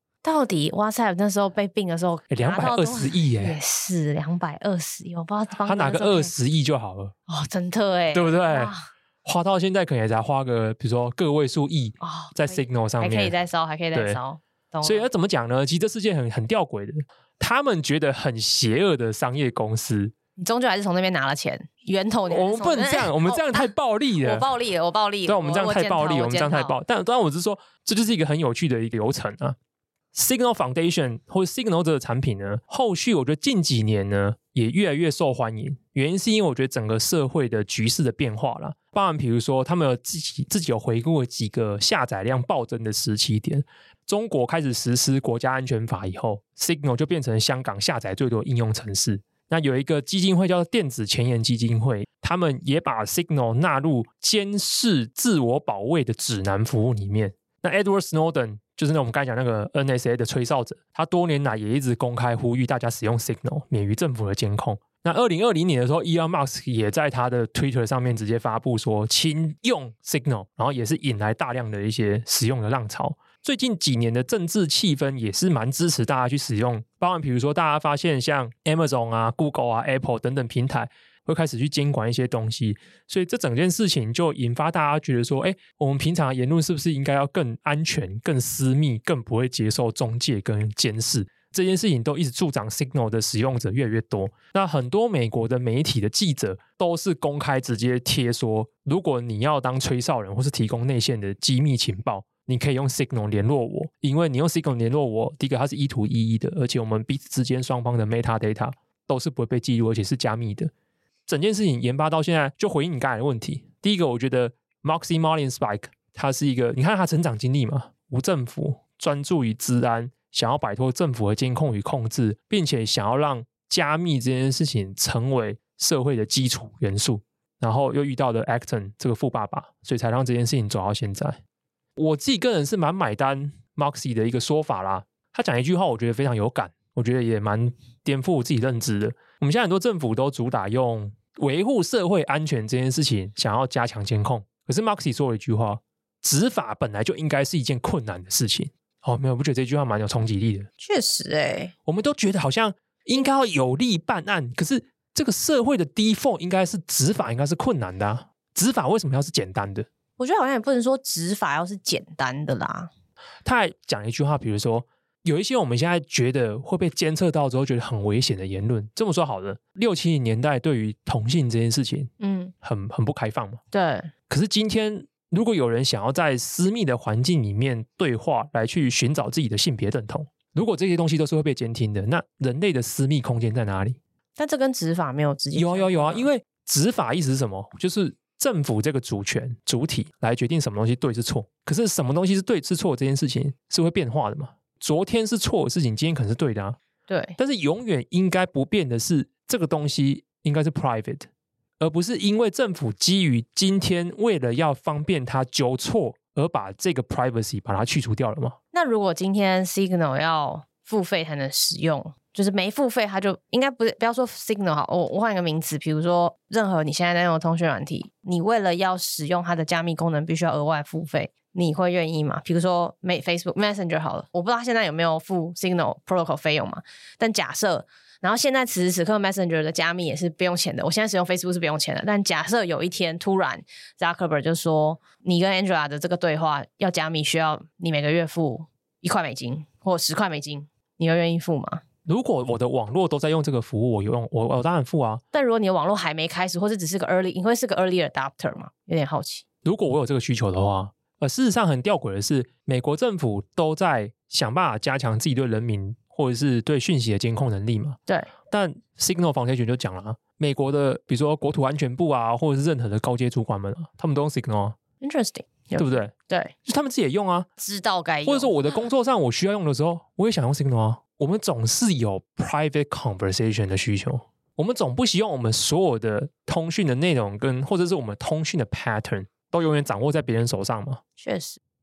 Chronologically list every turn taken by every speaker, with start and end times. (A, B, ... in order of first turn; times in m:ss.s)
0:00.2-0:06.3 A
0:02.3-0:03.6 B
0:05.6-0:07.1 B
0:07.3-0:08.8 A
0:08.1-0:08.7 B
0:09.2-0:13.4 B
0:12.0-0:15.1 A
0:13.9-0:14.2 B
0:14.8-0:20.1 B
0:20.4-0:26.8 A
0:22.3-0:24.5 B
0:25.2-0:29.6 B
0:30.1-1:50.7 B
1:51.3-2:11.4 B
2:12.0-2:30.7 B
2:30.8-2:31.7 A
2:31.8-2:39.9 B
2:40.2-2:42.9 A
2:43.4-2:52.1 B
2:52.2-2:52.5 A
2:52.6-2:53.6 B
2:53.7-2:54.1 A
2:54.3-3:04.0 B
3:04.4-3:06.3 A
3:05.5-3:16.8 B
3:17.1-3:17.4 A
3:17.4-3:21.3 B
3:21.8-3:28.6 B
3:28.7-4:01.8 A
4:02.0-4:05.2 B
4:05.3-4:09.4 A
4:09.6-4:18.0 B
4:18.5-4:24.8 B
4:25.0-4:26.5 A
4:25.8-4:26.1 B
4:26.6-4:27.5 B
4:27.6-4:28.9 A
4:28.2-4:41.0 B
4:41.2-4:41.6 A